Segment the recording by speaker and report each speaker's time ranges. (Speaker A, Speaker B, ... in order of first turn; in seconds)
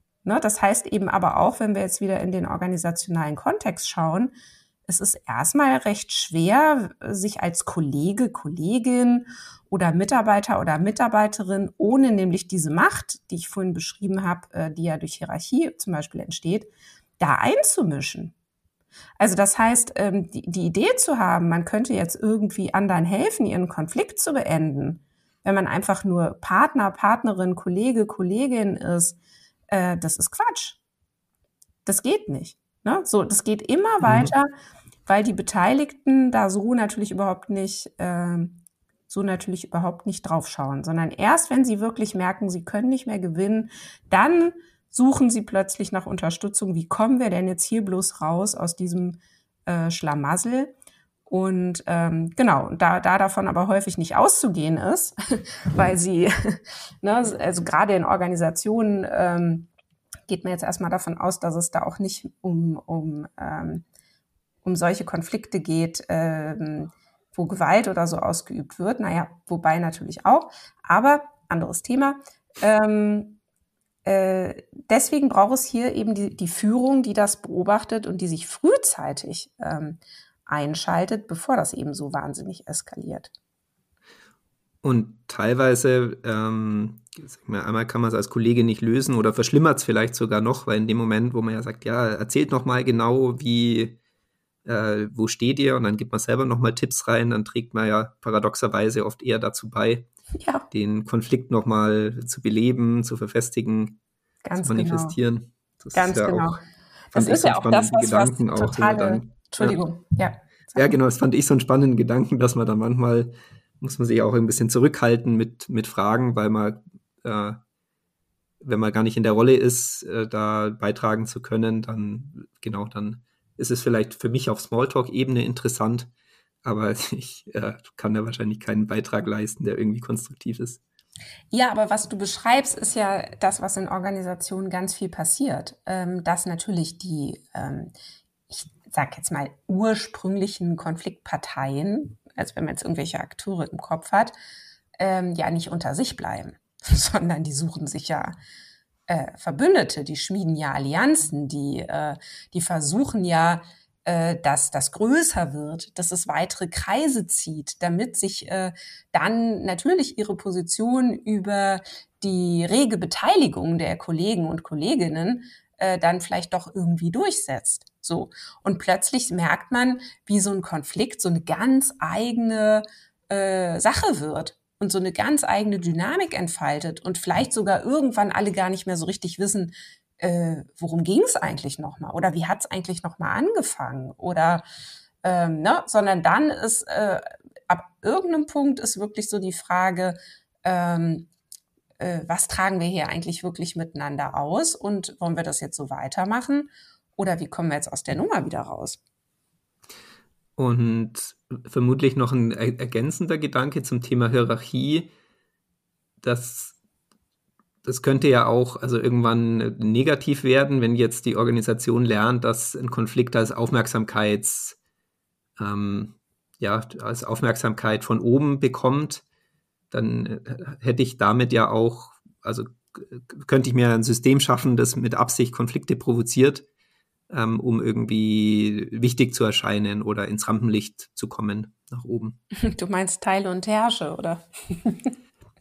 Speaker A: 0.2-4.3, 4.9-18.3, 19.2-29.2, 29.7-30.8, 31.9-34.5, 35.1-50.7, 51.3-59.7, 60.3-63.8, 64.6-73.4, 74.0-83.3, 100.4-100.7, 104.4-105.2, 105.9-106.6, 107.1-111.0, 131.5-137.9, 138.5-144.3, 145.0-148.4, 149.1-184.6, 185.2-191.3, 192.0-199.0, 232.6-235.1
Speaker B: 34.0-34.3, 84.8-94.0, 94.6-100.1, 100.7-104.0, 104.6-106.6, 107.1-109.8, 110.8-117.6, 118.6-126.1, 126.6-130.8, 200.6-205.1, 206.2-206.8, 207.8-214.8, 215.6-219.2, 219.9-226.7, 227.3-232.4